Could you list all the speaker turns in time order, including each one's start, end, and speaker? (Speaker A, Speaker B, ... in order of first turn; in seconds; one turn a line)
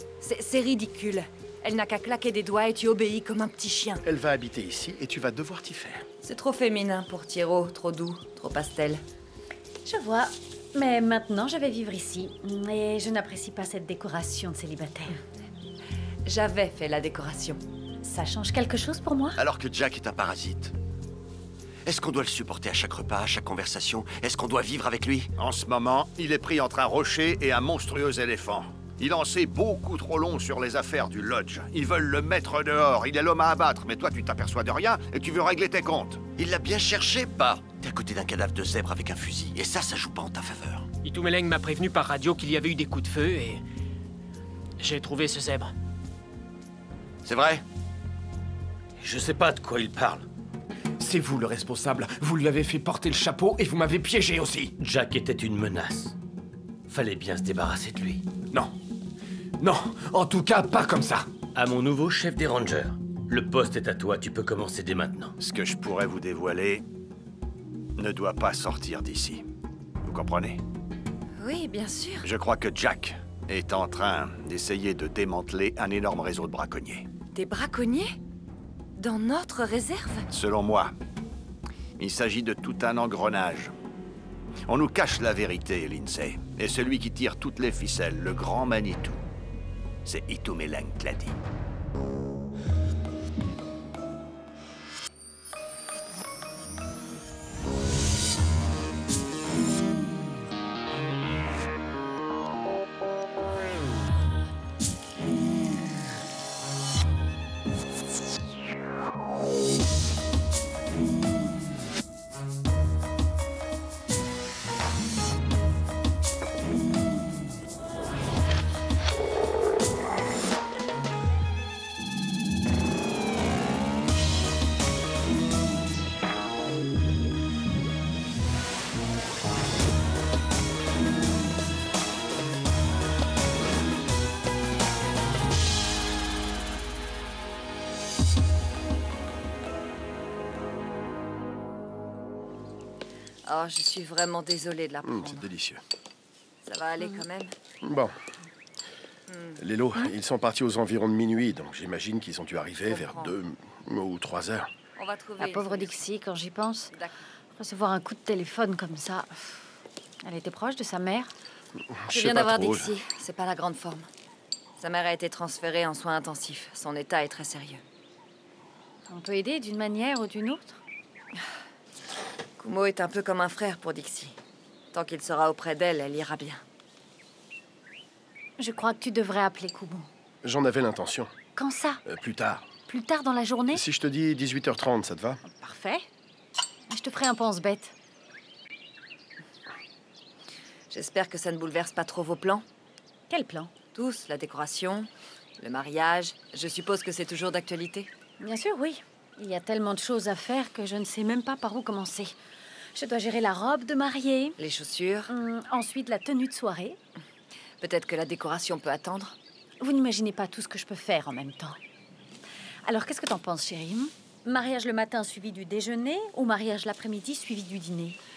Speaker A: 0.2-4.0
Speaker B: 4.0-6.1
Speaker A: 6.2-9.0
Speaker C: 9.8-15.2
Speaker A: 16.3-17.6
Speaker C: 18.0-19.4
Speaker D: 19.4-20.7
Speaker D: 21.9-25.3
Speaker E: 25.4-36.2
Speaker D: 36.4-40.9
Speaker F: 41.0-43.6
Speaker F: 44.8-45.7
Speaker D: 47.2-47.6
Speaker G: 49.0-50.3
Speaker H: 51.0-54.7
Speaker G: 54.8-56.1
Speaker G: 56.9-58.2
Speaker H: 59.6-61.3
Speaker G: 61.5-65.3
Speaker E: 65.4-66.8
Speaker E: 68.0-69.5
Speaker E: 70.0-70.6
Speaker A: 71.4-72.3
Speaker E: 72.2-77.1
Speaker A: 77.3-78.2
Speaker A: 79.0-80.3
Speaker E: 80.3-80.9
Speaker E: 82.0-83.7
Speaker E: 84.7-89.2
Speaker E: 90.0-91.4
Speaker A: 143.5-145.5
Speaker B: 145.0-145.8
Speaker A: 146.6-147.5
Speaker B: 147.8-148.2
Speaker A: 149.3-149.6
Speaker B: 149.6-154.7
Speaker A: 152.9-153.3
Speaker A: 155.0-156.0
Speaker C: 155.4-156.9
Speaker A: 156.9-157.2
Speaker C: 157.5-159.7
Speaker C: 160.2-161.3
Speaker B: 161.9-162.9
Speaker A: 162.1-164.1
Speaker A: 164.8-167.8
Speaker C: 169.1-170.8
Speaker A: 172.6-174.4
Speaker A: 174.9-176.6
Speaker C: 178.6-180.1
Speaker B: 180.4-181.3
Speaker C: 181.6-182.0
Speaker B: 182.1-182.7
Speaker C: 182.9-183.8
Speaker B: 183.7-185.4
Speaker C: 185.4-186.1
Speaker C: 186.9-187.9
Speaker A: 190.9-192.7
Speaker C: 193.3-193.7
Speaker A: 193.9-198.1
Speaker C: 198.4-202.3
Speaker C: 202.9-204.6
Speaker A: 204.6-205.3
Speaker C: 205.3-207.0
Speaker A: 207.8-209.4
Speaker C: 209.8-211.8
Speaker C: 212.9-218.2